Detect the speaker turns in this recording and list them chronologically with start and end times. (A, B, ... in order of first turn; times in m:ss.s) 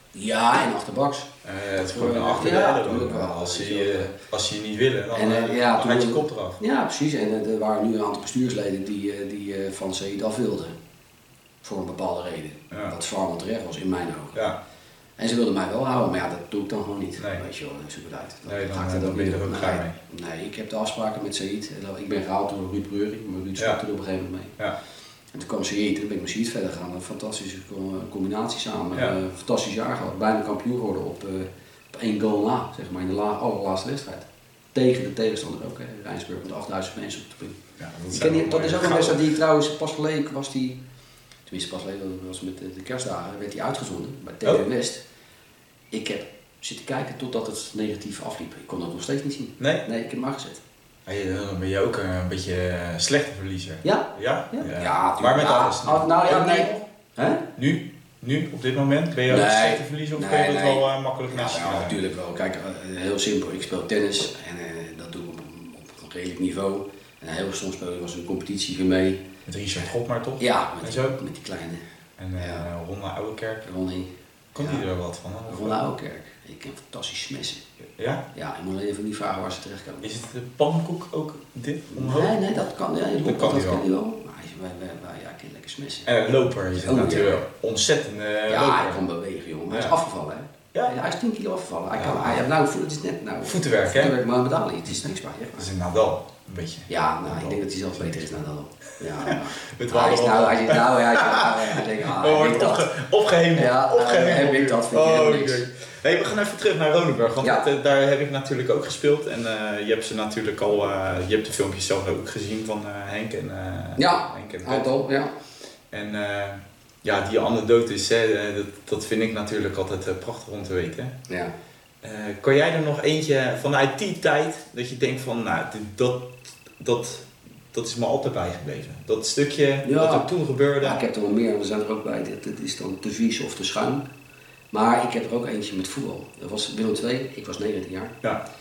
0:00.1-0:01.3 A
0:01.4-0:06.6 B
0:01.8-0:04.2 A
0:05.1-0:10.7 A
0:11.6-0:14.4 A
0:15.2-0:24.6 A
0:18.5-0:20.0 B
0:25.3-0:40.8 A
0:37.8-0:39.2 B
0:41.5-0:45.0 A
0:45.9-0:50.6 A
0:51.0-0:56.8 B
0:53.8-0:57.4 A
0:57.6-1:02.0 B
0:59.3-1:09.2 A
1:09.4-1:11.2 B
1:10.4-1:11.8 A
1:12.2-1:13.6 B
1:12.4-1:12.6 A
1:13.6-1:14.8 A
1:14.5-1:15.8 B
1:15.5-1:17.7 A
1:18.0-1:18.2 B
1:18.3-1:20.1 A
1:20.0-1:22.4 B
1:21.9-1:26.1 A
1:23.2-1:23.8 B
1:26.0-1:29.0 B
1:26.8-1:27.4 A
1:28.5-1:35.7 A
1:32.0-1:32.4 B
1:33.4-1:34.1 B
1:35.6-1:37.6 B
1:36.9-1:42.9 A
1:39.2-1:54.8 B
1:43.5-1:45.6 A
1:47.4-1:47.7 A
1:54.0-1:55.3 A
1:55.9-2:01.2 B
2:02.0-2:11.0 B
2:09.8-2:14.0 A
2:14.7-2:18.2 A